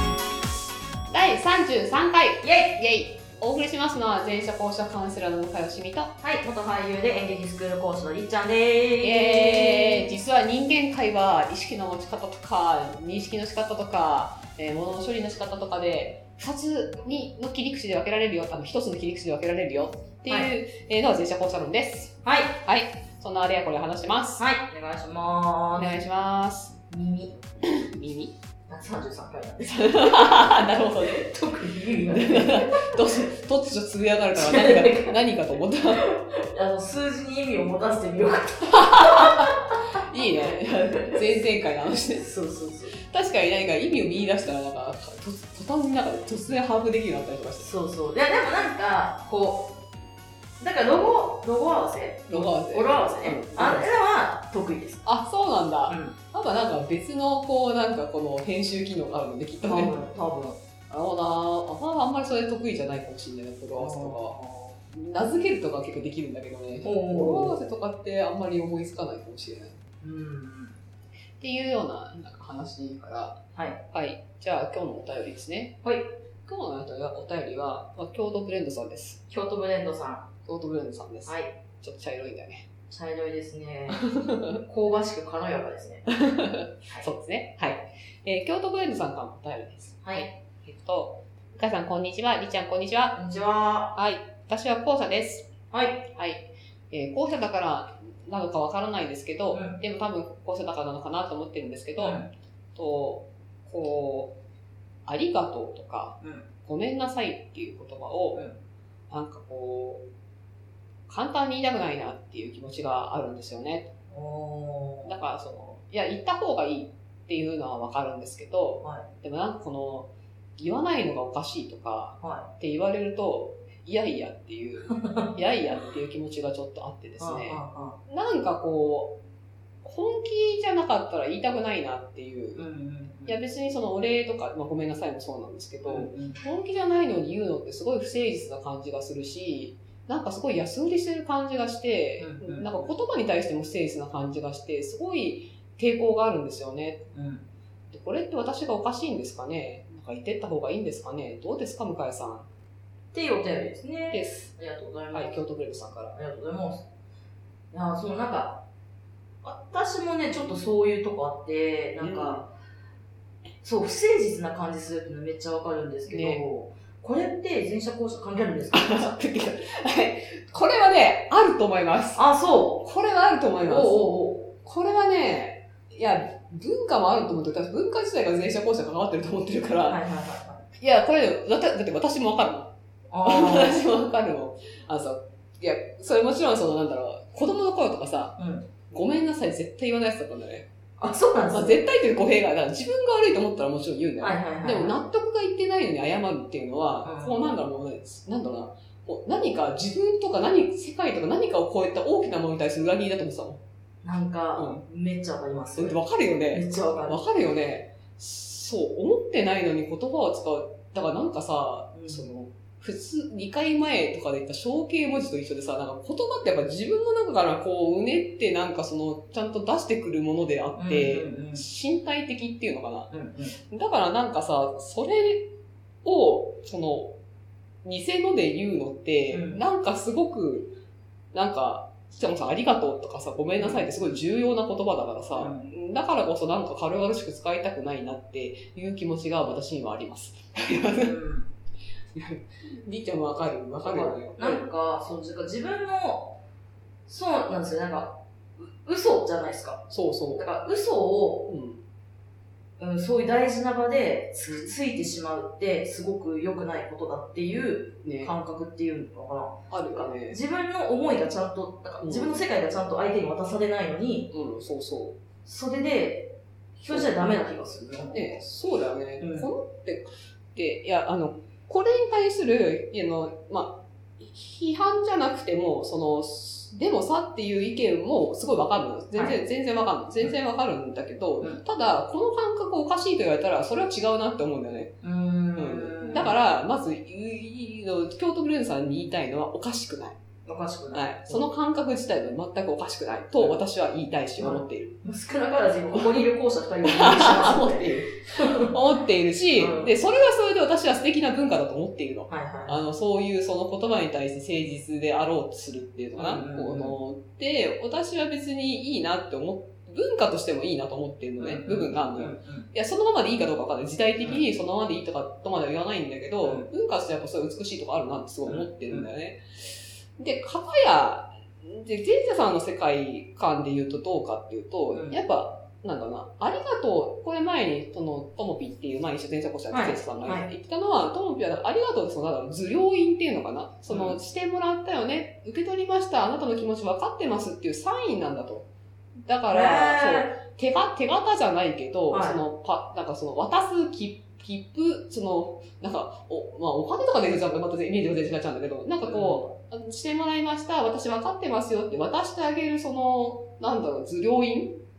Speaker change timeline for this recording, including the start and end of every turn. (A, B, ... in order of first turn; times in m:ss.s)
0:01.1-0:06.1 A
0:02.4-0:02.8 B
0:06.2-0:10.1 B
0:09.0-0:24.4 A
0:22.2-0:22.6 B
0:24.4-0:26.0 B
0:25.8-0:26.8 A
0:26.9-0:27.4 B
0:27.6-0:28.3 A
0:28.7-0:33.2 B
0:29.6-0:31.2 A
0:32.1-0:36.0 A
0:34.3-0:35.2 B
0:35.9-0:41.2 B
0:38.7-0:42.2 A
0:42.2-0:43.0 B
0:43.0-0:47.7 A
0:47.6-0:49.8 B
0:50.6-0:55.0 B
0:52.3-0:53.9 A
0:55.0-0:59.9 A
0:55.9-0:56.2 B
0:59.6-1:00.6 B
1:00.9-1:04.3 A
1:03.7-1:04.8 B
1:04.9-1:09.8 A
1:06.8-1:07.6 B
1:10.0-1:10.8 B
1:11.4-1:13.4 A
1:13.9-1:15.8 A
1:15.8-1:16.1 B
1:16.4-1:19.2 A
1:19.3-1:20.3 B
1:20.4-1:22.7 A
1:21.2-1:21.5 B
1:22.9-1:26.1 B
1:24.0-1:24.6 A
1:26.2-1:33.2 A
1:33.1-1:33.9 B
1:34.0-1:35.5 A
1:35.7-1:36.0 B
1:36.1-1:42.2 A
1:39.5-1:39.8 B
1:42.0-1:42.3 B
1:42.8-1:44.4 A
1:45.0-1:48.4 A
1:46.2-1:46.5 B
1:49.1-1:50.0 A
1:51.1-1:53.9 A
1:54.1-1:55.1 B
1:55.0-2:09.2 A
2:02.2-2:02.5 B
2:05.0-2:05.3 B
2:07.2-2:08.0 B
2:09.8-2:12.6 A
2:12.6-2:13.4 B
2:13.3-2:27.0 A
2:15.9-2:16.4 B
2:22.2-2:22.7 B
2:27.1-2:27.4 B
2:27.9-2:32.5 A
2:33.1-2:35.4 B
2:34.1-2:34.5 A
2:35.1-2:36.1 A
2:36.1-2:36.9 B
2:37.7-2:38.6 B
2:39.4-2:42.5 B
2:42.0-2:42.4 A
2:43.6-2:49.2 B
2:46.1-2:46.4 A
2:48.7-2:52.2 A
2:52.2-2:52.8 B
2:52.8-3:00.0 A
2:53.6-2:54.5 B
2:59.9-3:00.7 B
3:00.8-3:02.7 A
3:03.1-3:03.9 B
3:03.2-3:08.4 A
3:08.4-3:08.7 B
3:08.9-3:10.7 A
3:11.0-3:11.8 B
3:11.5-3:23.6 A
3:14.2-3:15.0 B
3:17.0-3:17.4 B
3:24.0-3:27.2 B
3:24.6-3:24.8 A
3:25.7-3:43.1 A
3:31.9-3:32.3 B
3:40.8-3:41.6 B
3:43.1-3:43.6 B
3:43.7-3:45.5 A
3:46.0-3:47.1 A
3:47.8-3:50.7 A
3:49.3-3:49.6 B
3:51.3-4:01.1 A
3:53.6-3:53.9 B
3:55.4-3:55.7 B
4:01.0-4:01.5 B
4:02.1-4:04.6 A
4:03.8-4:06.4 B
4:07.1-4:11.5 B
4:09.9-4:10.5 A
4:11.4-4:11.8 A
4:12.8-4:24.3 B
4:14.5-4:14.7 A
4:18.0-4:18.3 A
4:19.7-4:20.4 A
4:22.0-4:22.4 A
4:24.3-4:25.2 A
4:25.4-4:28.4 B
4:28.1-4:44.9 A
4:29.2-4:29.5 B
4:39.1-4:39.4 B
4:45.0-4:46.3 B
4:45.6-4:50.2 A
4:50.4-4:51.4 B
4:50.9-4:54.9 A
4:54.4-4:58.7 B
4:55.9-4:56.3 A
4:56.8-5:19.4 A
4:59.6-4:59.9 B
5:02.3-5:02.8 B
5:06.2-5:07.0 B
5:11.4-5:12.7 B
5:16.4-5:16.7 B
5:18.4-5:19.1 B
5:20.2-5:38.7 A
5:24.9-5:25.2 B
5:29.7-5:30.5 B
5:33.9-5:34.2 B
5:39.2-5:54.8 A
5:39.5-5:40.3 B
5:42.1-5:42.4 B
5:49.0-5:49.4 B